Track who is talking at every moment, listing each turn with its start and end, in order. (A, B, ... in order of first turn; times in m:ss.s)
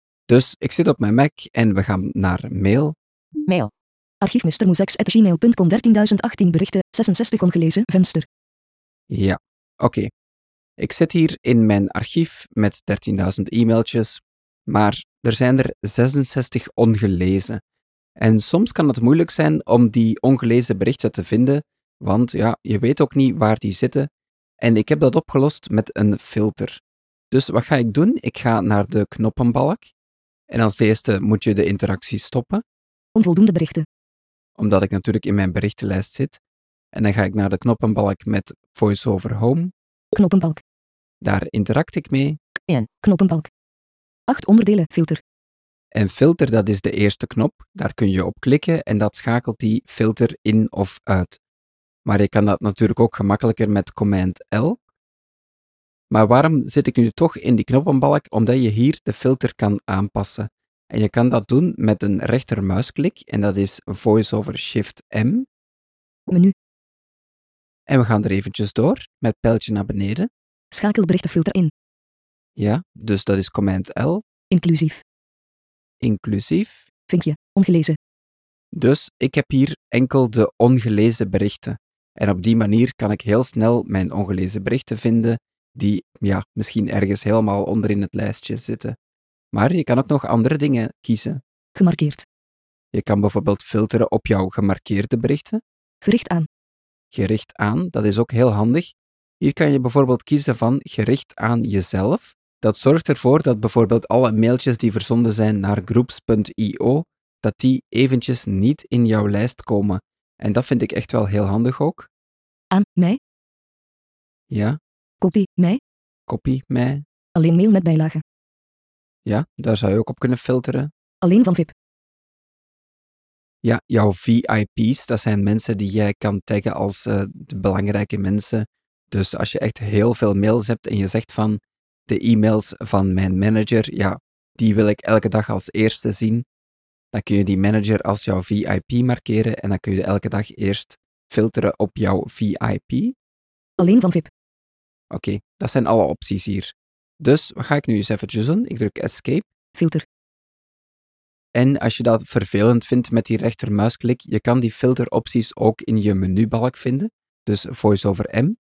0:00.3-0:03.0 A
0:04.2-0:08.2 B
0:09.1-0:10.1 A
0:10.8-0:17.6 A
0:18.2-0:29.9 A
0:30.5-0:32.6 A
0:33.1-0:33.8 B
0:34.6-0:36.4 A
0:36.9-0:39.7 A
0:40.1-0:40.6 B
0:41.2-0:42.4 A
0:42.7-0:43.5 B
0:44.3-0:45.2 B
0:45.9-0:51.4 A
0:52.0-0:54.8 A
0:56.1-1:05.5 A
1:07.9-1:10.3 A
1:10.7-1:11.7 B
1:12.6-1:14.2 A
1:14.5-1:15.0 B
1:16.0-1:16.9 A
1:17.1-1:18.0 B
1:18.7-1:29.0 A
1:29.5-1:31.4 A
1:31.7-1:32.2 B
1:32.9-1:35.6 A
1:36.0-1:36.5 B
1:37.1-1:52.1 A
1:52.7-1:53.2 B
1:54.5-1:54.8 A
1:55.2-1:55.8 B
1:56.3-1:57.0 A
1:57.3-1:58.2 B
1:59.2-2:00.9 A
2:01.2-2:01.7 B
2:03.6-2:16.4 A
2:17.1-2:23.1 A
2:23.8-2:24.3 B
2:25.1-2:29.5 A
2:29.8-2:30.0 B
2:31.5-2:38.6 A